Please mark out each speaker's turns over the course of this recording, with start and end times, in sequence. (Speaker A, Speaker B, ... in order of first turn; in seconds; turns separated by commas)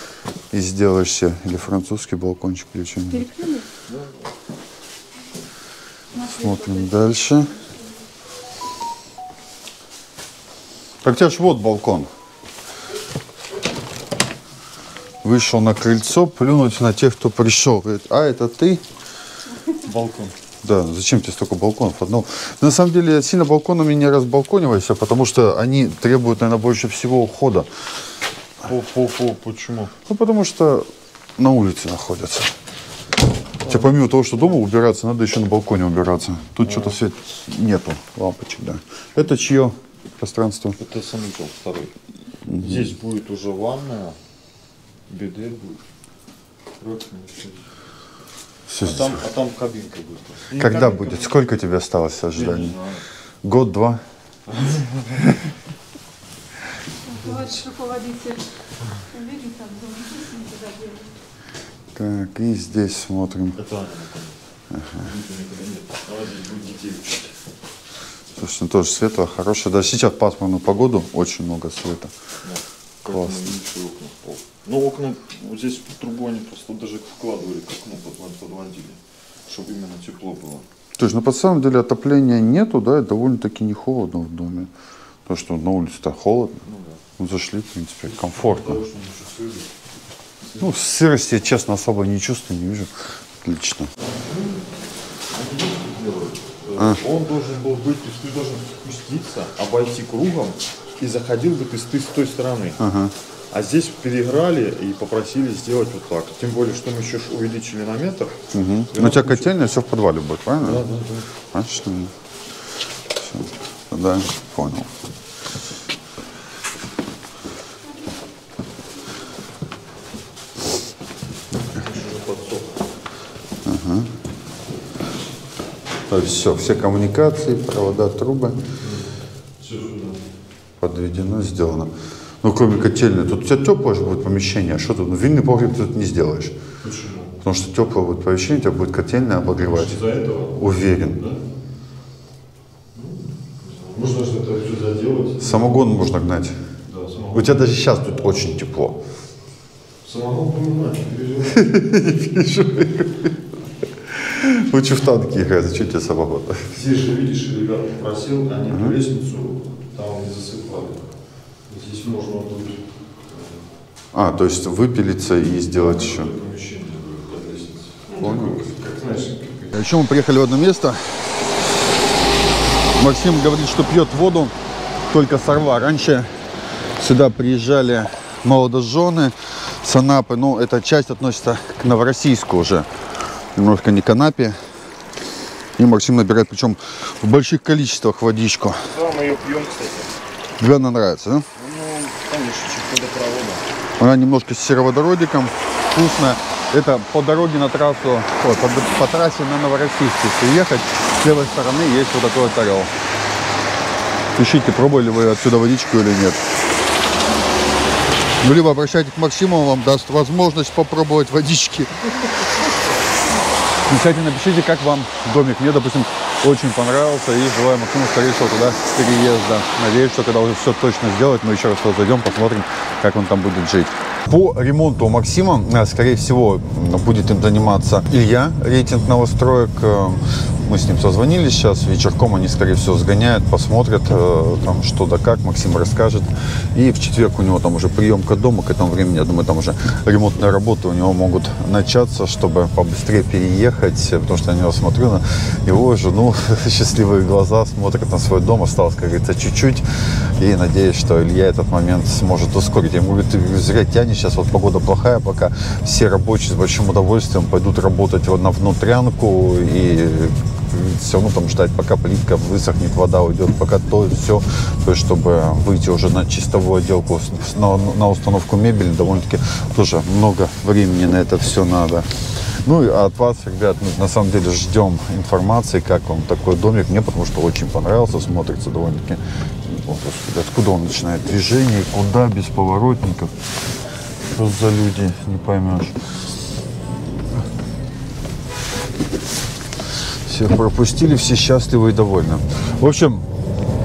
Speaker A: 0.5-3.3, Speaker B: 3.1-3.7, Speaker C: 3.9-4.3, Speaker B: 6.1-7.1, Speaker A: 6.2-7.5, Speaker A: 11.0-12.1, Speaker A: 15.2-18.8, Speaker C: 19.7-20.3, Speaker A: 20.6-27.7, Speaker C: 28.6-29.9, Speaker A: 30.1-30.9, Speaker A: 31.4-32.5, Speaker C: 33.6-33.9, Speaker A: 33.6-40.8, Speaker C: 36.6-37.0, Speaker C: 40.8-41.9, Speaker A: 42.5-42.9, Speaker C: 42.6-44.2, Speaker C: 45.1-45.8, Speaker C: 46.8-47.6, Speaker A: 48.7-49.2, Speaker C: 48.8-51.3, Speaker A: 50.5-52.8, Speaker C: 52.3-53.0, Speaker A: 53.4-54.0, Speaker C: 54.5-55.2, Speaker B: 57.0-58.5, Speaker B: 59.1-61.1, Speaker A: 61.9-63.6, Speaker C: 63.5-64.4, Speaker A: 64.7-65.0, Speaker C: 65.0-67.3, Speaker A: 68.3-72.1, Speaker C: 72.4-80.7, Speaker A: 73.0-73.5, Speaker A: 81.0-84.7, Speaker A: 85.2-86.6, Speaker C: 86.6-87.0, Speaker A: 87.2-88.8, Speaker C: 88.0-89.7, Speaker C: 90.4-90.7, Speaker A: 90.6-93.9, Speaker C: 94.2-94.6, Speaker C: 95.3-102.8, Speaker A: 96.8-97.0, Speaker A: 102.8-103.1, Speaker C: 103.5-108.3, Speaker A: 108.5-110.8, Speaker C: 108.9-109.6, Speaker C: 110.6-111.3, Speaker A: 111.5-112.1, Speaker A: 113.2-114.9, Speaker C: 121.7-122.8, Speaker A: 123.6-124.1, Speaker A: 126.1-128.6, Speaker C: 128.8-130.2, Speaker A: 130.8-131.9, Speaker A: 132.4-136.5, Speaker C: 136.8-137.3, Speaker A: 137.4-141.2, Speaker C: 139.6-141.4, Speaker C: 142.9-145.7, Speaker A: 145.4-146.6, Speaker C: 146.9-147.6, Speaker A: 147.3-149.0, Speaker C: 150.0-151.8, Speaker A: 151.5-153.3, Speaker A: 154.1-156.7, Speaker C: 156.7-161.0, Speaker A: 158.7-159.0, Speaker C: 161.7-163.6, Speaker A: 164.1-166.3, Speaker C: 165.7-169.7, Speaker A: 168.2-168.8, Speaker A: 169.7-171.2, Speaker A: 172.9-174.5, Speaker A: 175.1-176.3, Speaker A: 176.9-182.9, Speaker A: 183.5-184.6, Speaker A: 185.8-188.9, Speaker C: 188.9-190.1, Speaker A: 190.6-191.5, Speaker C: 191.5-193.6, Speaker A: 194.0-202.9, Speaker A: 204.3-206.4, Speaker A: 208.4-212.1, Speaker A: 213.8-283.3, Speaker A: 284.3-286.0, Speaker A: 290.2-293.3